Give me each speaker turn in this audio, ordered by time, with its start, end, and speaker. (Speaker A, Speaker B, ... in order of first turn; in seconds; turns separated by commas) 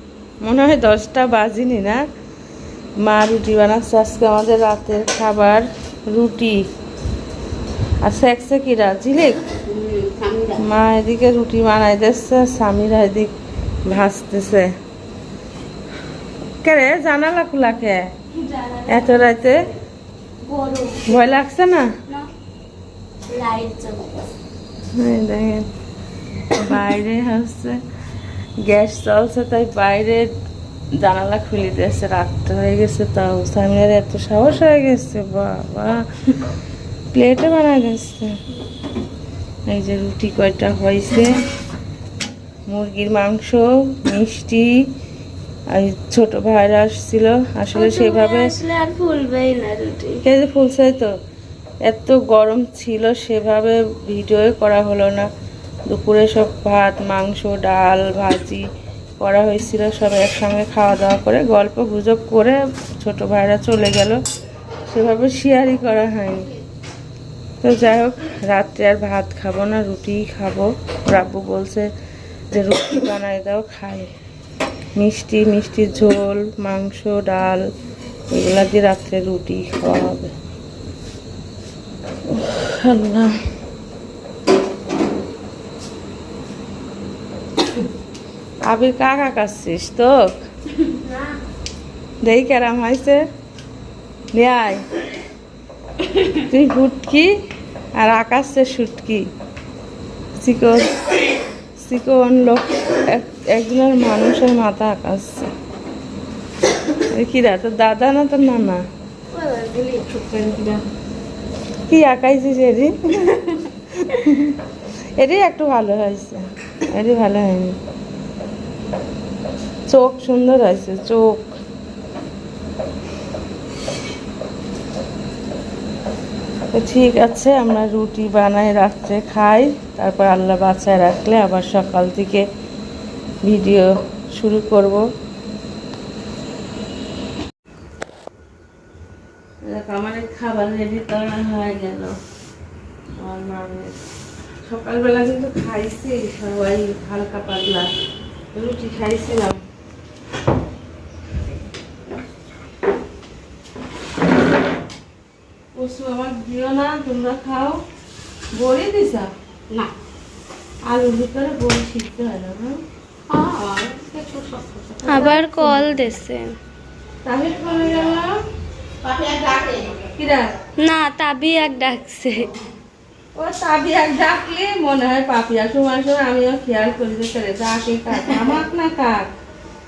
Speaker A: 0.4-2.0, Speaker A: 3.0-6.6, Speaker A: 8.0-9.4, Speaker B: 9.7-10.6, Speaker A: 10.6-13.3, Speaker A: 13.9-14.7, Speaker A: 16.6-18.0, Speaker C: 18.4-19.3, Speaker A: 18.9-19.7, Speaker C: 20.4-21.2, Speaker A: 21.1-21.9, Speaker C: 23.3-24.1, Speaker A: 24.9-25.7, Speaker A: 26.6-27.8, Speaker A: 28.6-30.3, Speaker A: 31.0-36.0, Speaker A: 37.1-38.4, Speaker A: 39.7-41.4, Speaker A: 42.7-44.7, Speaker A: 45.7-48.5, Speaker C: 47.7-50.2, Speaker A: 50.2-51.1, Speaker A: 51.9-55.3, Speaker A: 55.9-58.6, Speaker A: 59.2-64.2, Speaker A: 64.9-66.5, Speaker A: 67.6-71.9, Speaker A: 72.5-74.1, Speaker A: 75.0-77.7, Speaker A: 78.3-80.3, Speaker A: 82.3-83.3, Speaker A: 88.7-90.3, Speaker A: 92.2-93.2, Speaker A: 94.3-94.8, Speaker A: 96.3-97.3, Speaker A: 98.0-99.2, Speaker A: 100.4-101.0, Speaker A: 101.8-105.5, Speaker A: 107.1-108.8, Speaker C: 109.3-110.8, Speaker A: 111.9-113.4, Speaker A: 114.0-114.6, Speaker A: 115.2-117.8, Speaker A: 119.9-121.5, Speaker A: 126.7-132.4, Speaker A: 133.4-135.0, Speaker A: 139.7-142.2, Speaker A: 143.2-143.9, Speaker A: 144.6-147.9, Speaker A: 148.5-149.6, Speaker A: 155.7-157.8, Speaker A: 158.5-159.3, Speaker A: 160.9-162.8, Speaker B: 163.3-165.3, Speaker C: 165.1-166.5, Speaker A: 165.1-166.1, Speaker A: 167.2-168.3, Speaker B: 169.0-169.9, Speaker A: 170.2-170.4, Speaker C: 170.8-172.5, Speaker A: 173.4-179.3